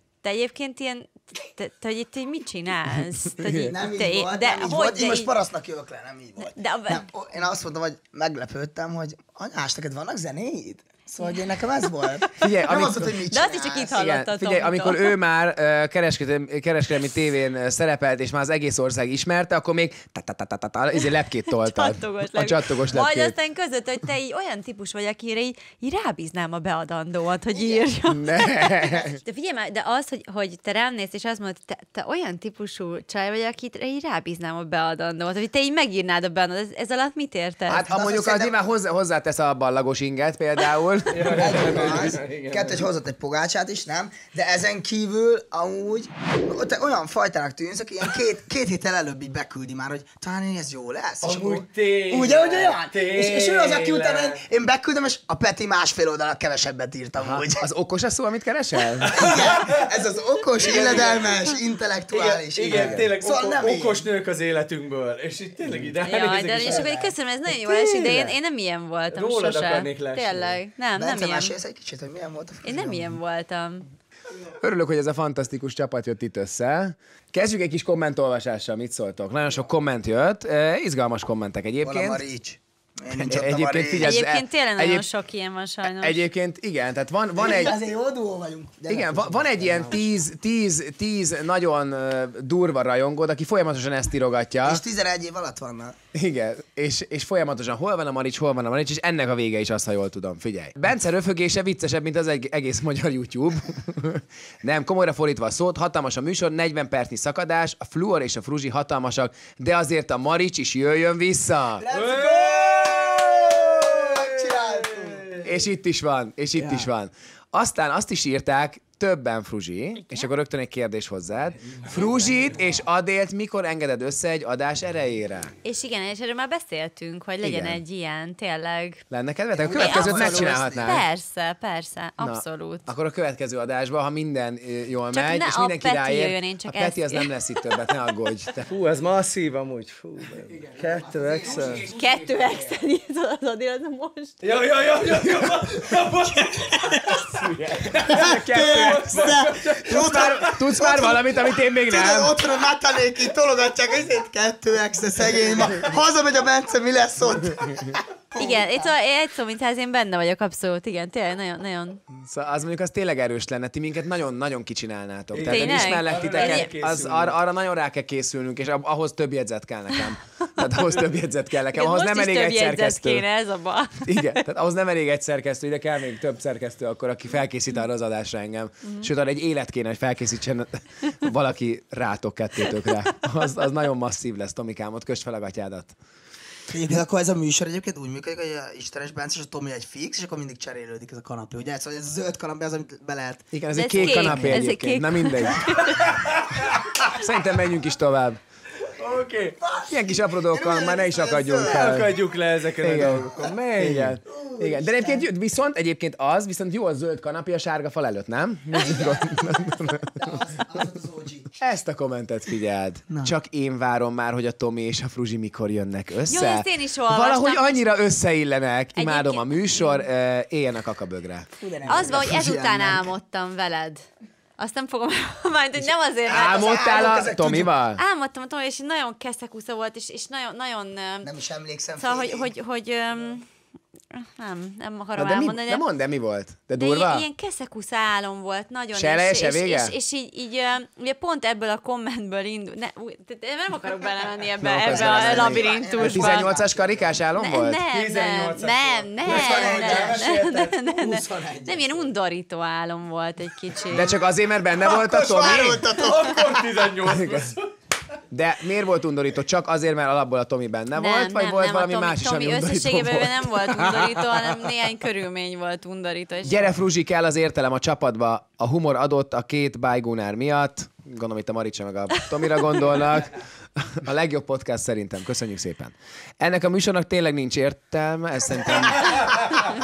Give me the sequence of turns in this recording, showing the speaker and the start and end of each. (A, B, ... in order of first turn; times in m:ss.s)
0:00.2-0:05.3 A
0:03.4-0:03.7 B
0:03.7-0:14.0 C
0:06.4-0:07.1 A
0:12.4-0:13.2 B
0:13.3-0:15.2 A
0:13.9-0:23.4 B
0:21.5-0:37.8 A
0:27.5-0:27.9 C
0:28.1-0:29.2 B
0:37.7-0:42.1 B
0:37.7-0:38.5 C
0:41.1-0:42.9 D
0:41.3-0:57.7 C
0:51.2-0:54.4 D
0:57.2-0:59.3 B
0:59.0-0:59.9 D
0:59.1-1:04.1 C
1:00.6-1:01.6 D
1:02.1-1:08.3 D
1:02.7-1:03.1 B
1:06.0-1:11.5 A
1:06.6-1:06.9 C
1:09.1-1:10.6 D
1:11.0-1:13.2 C
1:12.6-1:13.9 A
1:14.6-1:22.2 B
1:21.8-1:24.2 C
1:23.1-1:25.0 B
1:24.0-1:26.2 A
1:25.8-1:27.8 B
1:27.4-1:30.0 C
1:28.9-1:34.8 B
1:34.6-1:36.0 C
1:36.1-1:51.9 B
1:51.8-1:55.4 C
1:51.9-1:55.5 D
1:55.4-2:05.5 B
1:56.6-1:56.9 D
2:00.0-2:00.3 A
2:01.7-2:02.8 D
2:05.6-2:09.0 A
2:07.4-2:07.8 B
2:09.1-2:11.1 B
2:09.6-2:11.0 C
2:09.7-2:12.9 A
2:12.2-2:18.7 B
2:15.1-2:17.3 A
2:18.7-2:21.8 D
2:20.5-2:22.8 B
2:20.8-2:21.9 C
2:21.9-2:24.4 A
2:24.4-2:30.6 D
2:27.5-2:32.4 B
2:27.9-2:38.9 C
2:38.4-2:42.0 A
2:42.2-2:53.2 B
2:45.3-2:47.4 D
2:45.5-2:46.7 A
2:51.7-2:54.2 A
2:54.0-3:06.0 B
3:06.7-3:13.5 C
3:13.5-3:16.0 B
3:13.7-3:16.1 A
3:14.0-3:14.6 C
3:16.1-3:16.6 D
3:17.0-3:18.4 B
3:18.9-3:19.6 D
3:19.6-3:22.1 C
3:19.9-3:22.2 B
3:21.6-3:24.2 D
3:22.8-3:30.4 B
3:24.3-3:25.3 C
3:28.8-3:31.6 C
3:31.6-3:42.2 B
3:36.3-3:37.9 A
3:39.0-3:40.0 A
3:41.6-3:43.1 C
3:41.9-3:44.0 A
3:44.6-3:47.2 A
3:46.3-3:47.8 C
3:46.3-3:48.0 B
3:48.0-3:51.3 A
3:51.2-3:52.5 C
3:52.0-3:53.5 A
3:54.1-3:55.8 A
3:55.2-3:57.3 B
3:56.8-4:06.5 A
3:58.9-4:00.0 B
4:04.6-4:07.9 B
4:04.8-4:07.1 C
4:07.4-4:14.2 A
4:07.9-4:10.4 D
4:09.2-4:12.1 C
4:13.9-4:16.0 B
4:14.8-4:16.7 C
4:14.8-4:17.7 D
4:17.0-4:17.6 B
4:18.3-4:24.7 B
4:21.0-4:26.7 A
4:26.4-4:39.5 B